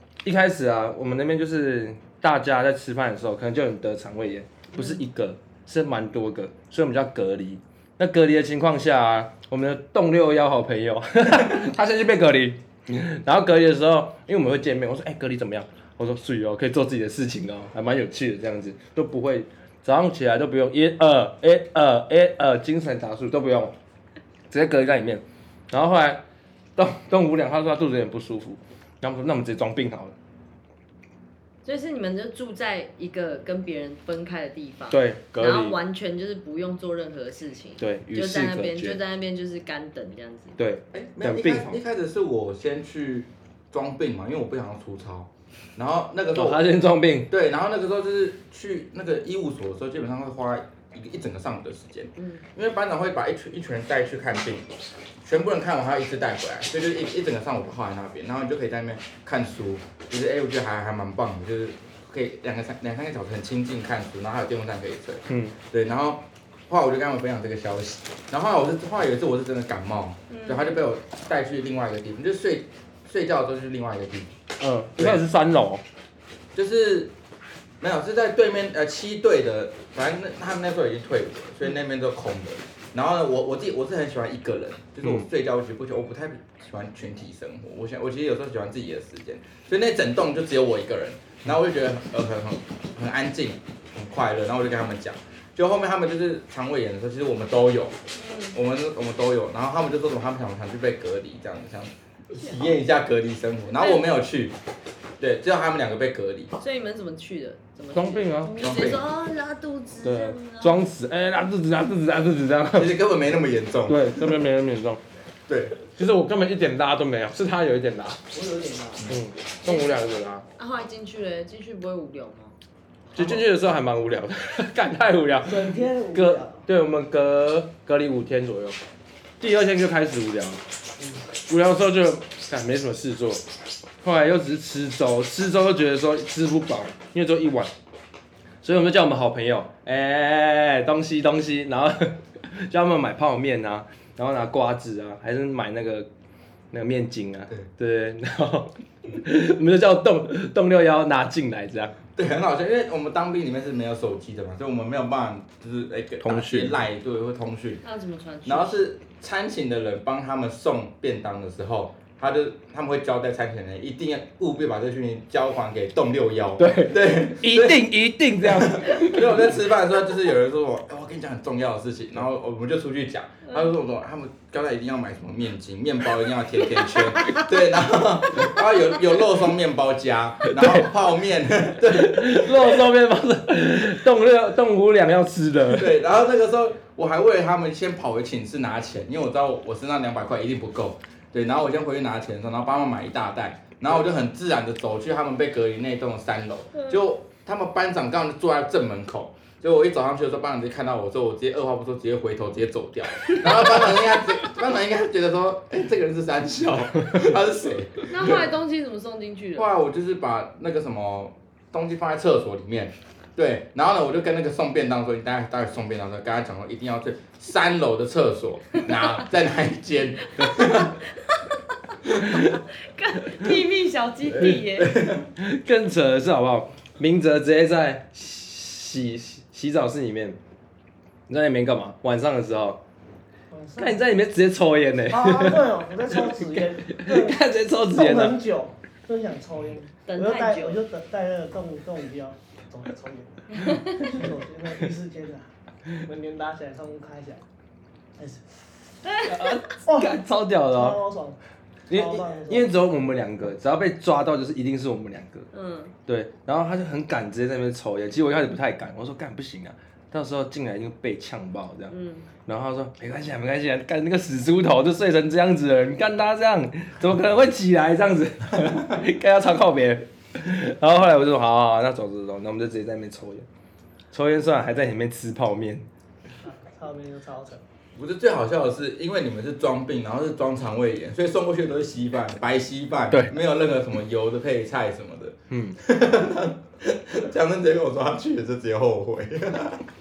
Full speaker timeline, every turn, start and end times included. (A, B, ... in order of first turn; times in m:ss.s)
0:00.2-0:23.7 A
0:24.5-0:26.2 A
0:26.8-0:30.1 A
0:31.6-0:40.6 B
0:34.9-0:35.8 A
0:37.8-0:39.0 A
0:40.6-0:41.8 A
0:40.9-0:46.6 C
0:46.3-0:47.3 A
0:47.3-0:54.7 C
0:52.2-0:52.4 B
0:55.2-1:14.4 C
1:05.3-1:05.6 A
1:10.3-1:10.8 B
1:14.6-1:15.8 A
1:15.0-1:15.2 C
1:16.5-1:17.1 C
1:17.8-1:38.0 C
1:38.1-1:38.6 B
1:38.5-1:44.6 C
1:43.8-1:44.0 B
1:45.2-1:46.5 C
1:46.6-1:50.8 B
1:47.9-1:48.7 A
1:48.6-1:49.1 C
1:50.0-1:53.0 A
1:52.7-1:54.3 C
1:53.9-1:55.0 A
1:55.5-1:55.8 C
1:55.9-1:58.2 A
1:58.3-1:59.1 D
1:59.1-2:00.4 A
2:00.6-2:02.5 B
2:03.1-2:03.4 D
2:03.1-2:08.8 A
2:05.4-2:06.6 D
2:09.4-2:10.6 A
2:11.0-2:11.2 D
2:11.4-2:13.4 A
2:14.0-2:17.7 A
2:18.6-2:26.1 A
2:26.7-2:32.0 A
2:32.2-2:37.8 C
2:36.2-2:36.8 A
2:37.8-2:38.8 B
2:38.4-2:47.9 C
2:46.6-2:49.4 A
2:48.4-3:02.8 C
3:00.4-3:00.9 A
3:01.8-3:06.0 A
3:05.7-3:28.5 C
3:28.1-3:29.7 B
3:29.6-3:41.0 C
3:40.4-3:40.9 B
3:42.2-3:45.0 B
3:44.2-3:45.3 C
3:45.4-3:50.4 A
3:51.3-3:52.8 A
3:53.5-3:54.0 D
3:53.8-3:58.4 A
3:55.1-4:05.5 D
4:00.0-4:00.8 B
4:06.0-4:07.4 D
4:08.2-4:08.6 D
4:09.0-4:09.5 B
4:09.2-4:11.0 A
4:09.8-4:11.4 D
4:11.9-4:15.5 A
4:11.9-4:12.7 D
4:15.5-4:15.9 B
4:16.1-4:21.9 A
4:21.9-4:22.3 B
4:22.4-4:33.4 A
4:34.1-4:35.8 A
4:36.4-4:37.6 D
4:38.0-4:49.9 C
4:43.1-4:43.4 A
4:45.5-4:45.8 A